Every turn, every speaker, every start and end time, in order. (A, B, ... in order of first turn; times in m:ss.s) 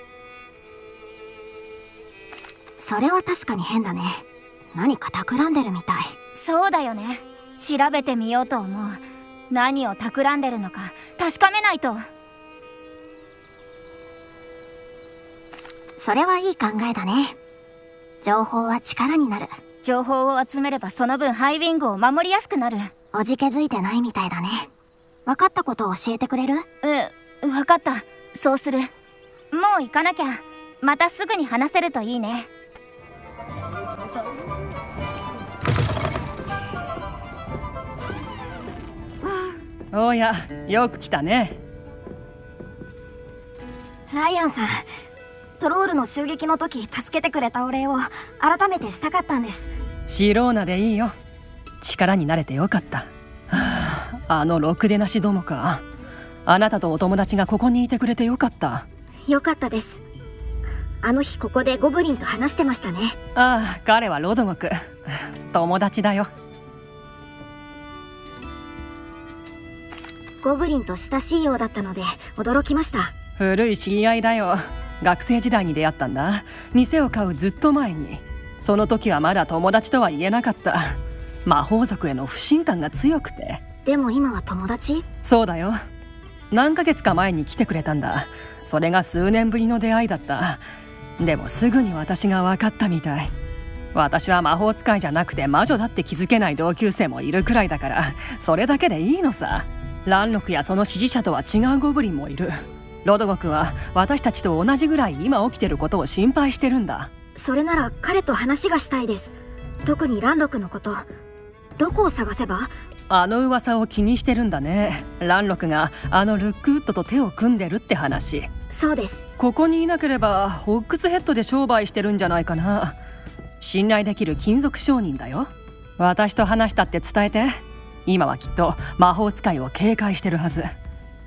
0:02.8-0:06.1 A
0:06.3-0:12.0 B
0:16.0-0:17.4 A
0:18.2-0:19.5 A
0:19.8-0:22.9 B
0:23.1-0:24.7 A
0:25.2-0:26.6 A
0:26.8-0:28.9 B
0:29.5-0:32.5 B
0:39.9-0:41.6 C
0:44.1-0:44.9 A
0:45.6-0:49.7 A
0:50.1-0:51.1 C
0:51.8-0:55.8 C
0:56.4-0:58.8 C
0:59.3-1:00.0 A
1:01.0-1:03.2 A
1:03.4-1:04.8 C
1:05.5-1:06.3 C
1:10.4-1:13.1 A
1:13.4-1:23.6 C
1:23.8-1:25.0 A
1:25.2-1:25.8 C
1:26.5-1:30.6 C
1:31.2-1:33.3 C
1:33.9-1:47.1 C
1:47.4-1:51.1 A
1:51.8-1:52.7 A
1:53.1-1:58.5 C
1:58.7-1:59.2 A
1:59.4-2:03.0 C
2:03.6-2:10.7 C